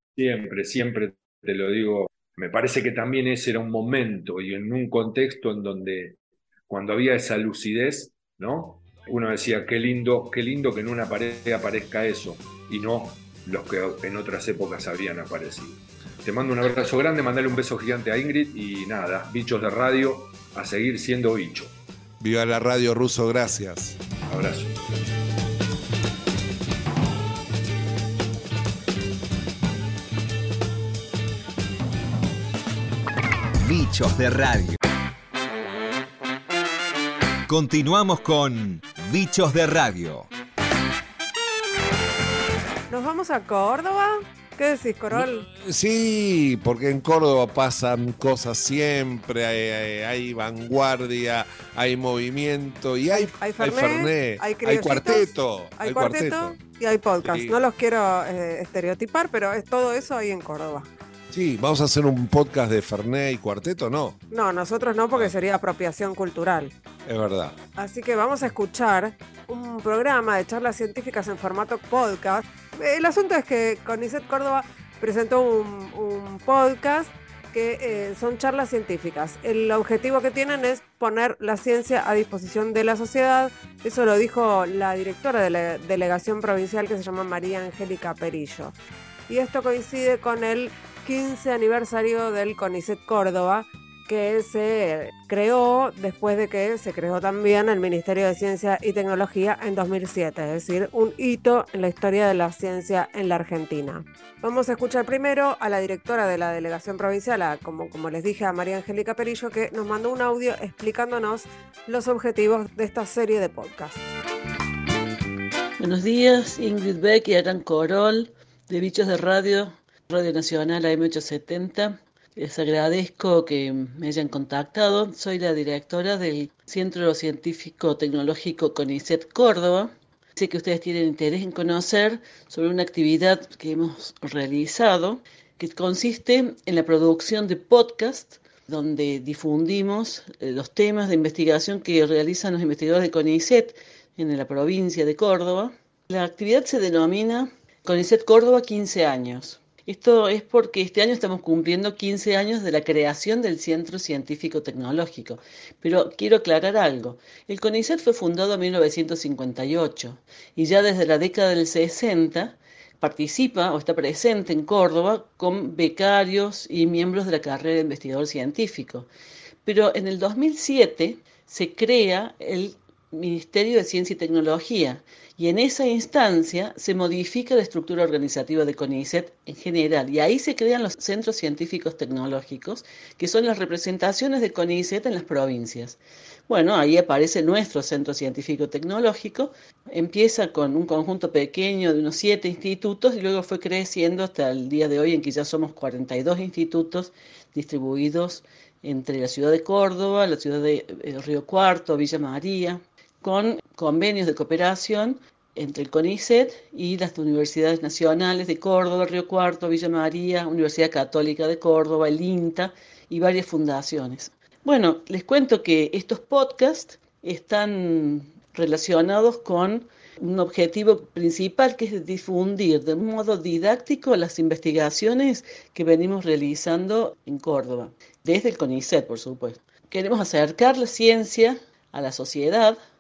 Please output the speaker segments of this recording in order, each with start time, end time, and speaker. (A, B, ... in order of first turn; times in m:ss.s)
0:00.2-0:06.2 A
0:06.7-0:21.7 A
0:22.2-0:24.0 B
0:24.3-0:24.8 A
0:33.6-0:34.8 C
0:37.5-0:40.3 C
0:42.9-0:45.5 D
0:45.1-0:56.6 B
0:53.1-1:00.9 D
0:57.2-0:57.6 B
1:01.3-1:04.2 B
1:04.3-1:06.7 D
1:07.1-1:07.6 B
1:07.8-1:28.8 D
1:29.3-1:54.1 D
1:55.8-2:49.1 E
2:49.6-3:52.8 E